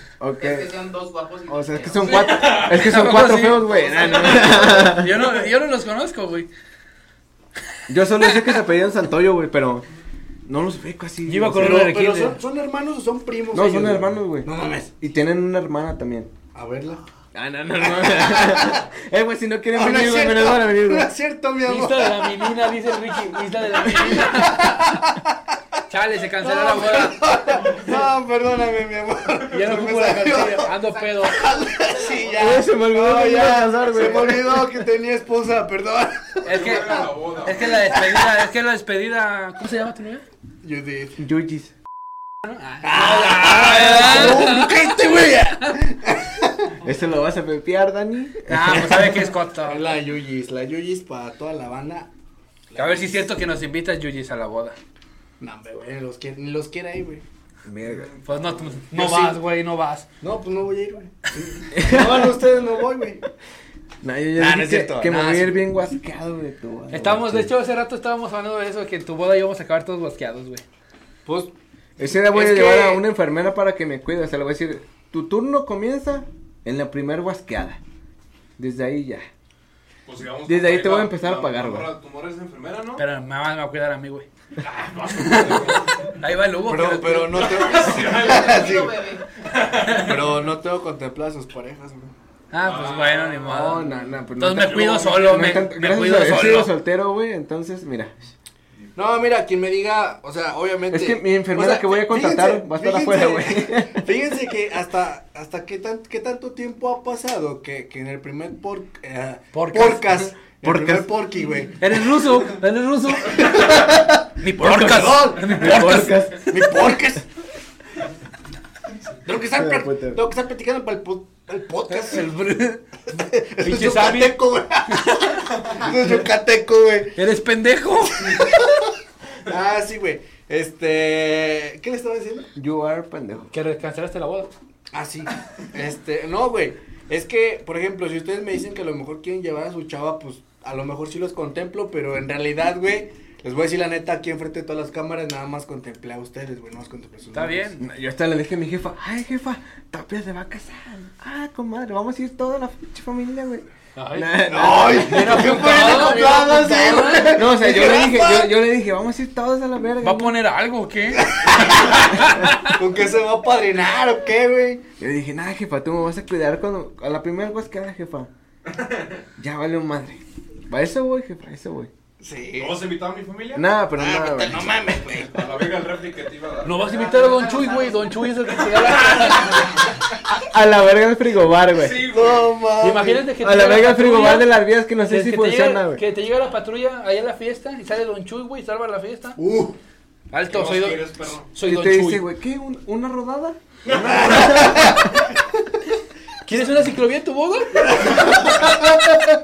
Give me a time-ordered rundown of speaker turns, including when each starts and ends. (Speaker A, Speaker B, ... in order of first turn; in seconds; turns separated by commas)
Speaker A: 0.2-0.8, Speaker B: 0.4-2.3, Speaker A: 1.5-5.2, Speaker C: 2.0-6.5, Speaker D: 2.1-3.0, Speaker A: 7.9-9.9, Speaker C: 8.2-8.6, Speaker A: 10.5-11.8, Speaker C: 11.3-12.4, Speaker E: 11.5-14.9, Speaker A: 13.5-14.5, Speaker A: 15.0-16.3, Speaker E: 16.5-17.0, Speaker A: 17.3-21.1, Speaker E: 17.9-18.9, Speaker E: 19.7-22.8, Speaker C: 21.7-25.1, Speaker E: 23.4-25.4, Speaker C: 25.9-27.9, Speaker E: 26.4-30.7, Speaker C: 29.5-31.4, Speaker E: 31.3-37.1, Speaker B: 31.8-32.2, Speaker A: 32.3-34.8, Speaker D: 36.5-37.8, Speaker C: 36.5-40.2, Speaker E: 37.8-38.1, Speaker E: 40.6-41.2, Speaker A: 41.2-41.7, Speaker C: 42.5-45.9, Speaker E: 42.8-46.7, Speaker A: 46.8-49.3, Speaker C: 48.5-49.9, Speaker E: 49.6-52.1, Speaker E: 52.7-53.3, Speaker C: 52.8-54.8, Speaker E: 55.4-57.2, Speaker A: 57.7-58.1, Speaker D: 58.1-58.7, Speaker C: 58.2-60.1, Speaker E: 58.9-59.4, Speaker E: 60.2-63.2, Speaker A: 61.7-62.4, Speaker A: 64.0-67.5, Speaker E: 64.4-65.7, Speaker C: 66.9-70.6, Speaker E: 71.3-71.5, Speaker A: 72.0-77.8, Speaker E: 72.2-73.0, Speaker A: 78.6-79.2, Speaker D: 80.1-83.0, Speaker A: 80.5-81.9, Speaker C: 83.0-84.3, Speaker D: 84.6-85.9, Speaker C: 85.2-87.7, Speaker E: 86.7-89.1, Speaker D: 87.4-88.8, Speaker B: 88.3-89.2, Speaker D: 89.4-90.2, Speaker E: 89.8-92.1, Speaker C: 92.5-96.8, Speaker D: 92.6-93.9, Speaker A: 93.5-98.1, Speaker E: 99.0-111.9, Speaker A: 100.9-104.1, Speaker C: 109.5-110.1, Speaker A: 110.6-111.1, Speaker C: 111.8-116.4, Speaker E: 113.3-115.6, Speaker A: 115.0-116.6, Speaker E: 116.5-117.2, Speaker E: 119.2-122.3, Speaker A: 119.5-120.2, Speaker C: 121.9-122.8, Speaker E: 123.1-127.2, Speaker C: 123.6-125.8, Speaker C: 127.2-128.5, Speaker E: 128.2-128.9, Speaker E: 129.5-132.5, Speaker A: 132.6-133.5, Speaker C: 133.5-134.5, Speaker E: 134.9-147.7, Speaker C: 147.3-147.8, Speaker A: 147.8-153.6, Speaker C: 154.0-157.4, Speaker A: 154.2-156.2, Speaker E: 154.5-158.5, Speaker A: 157.1-160.4, Speaker C: 160.0-162.8, Speaker E: 161.2-164.8, Speaker A: 165.0-168.3, Speaker D: 168.7-169.2, Speaker A: 169.4-171.9, Speaker E: 172.2-172.8, Speaker D: 172.6-173.7, Speaker A: 173.5-174.7, Speaker E: 173.9-175.6, Speaker D: 175.1-176.8, Speaker C: 176.6-179.8, Speaker B: 176.9-178.1, Speaker D: 178.6-180.0, Speaker A: 180.3-182.1, Speaker D: 181.7-182.6, Speaker E: 182.1-183.3, Speaker C: 182.8-189.4, Speaker A: 183.4-186.0, Speaker E: 189.4-189.8, Speaker C: 190.3-192.2, Speaker D: 190.5-191.5, Speaker A: 191.6-195.3, Speaker D: 193.9-194.7, Speaker E: 194.3-195.2, Speaker C: 196.5-198.1, Speaker E: 198.0-198.8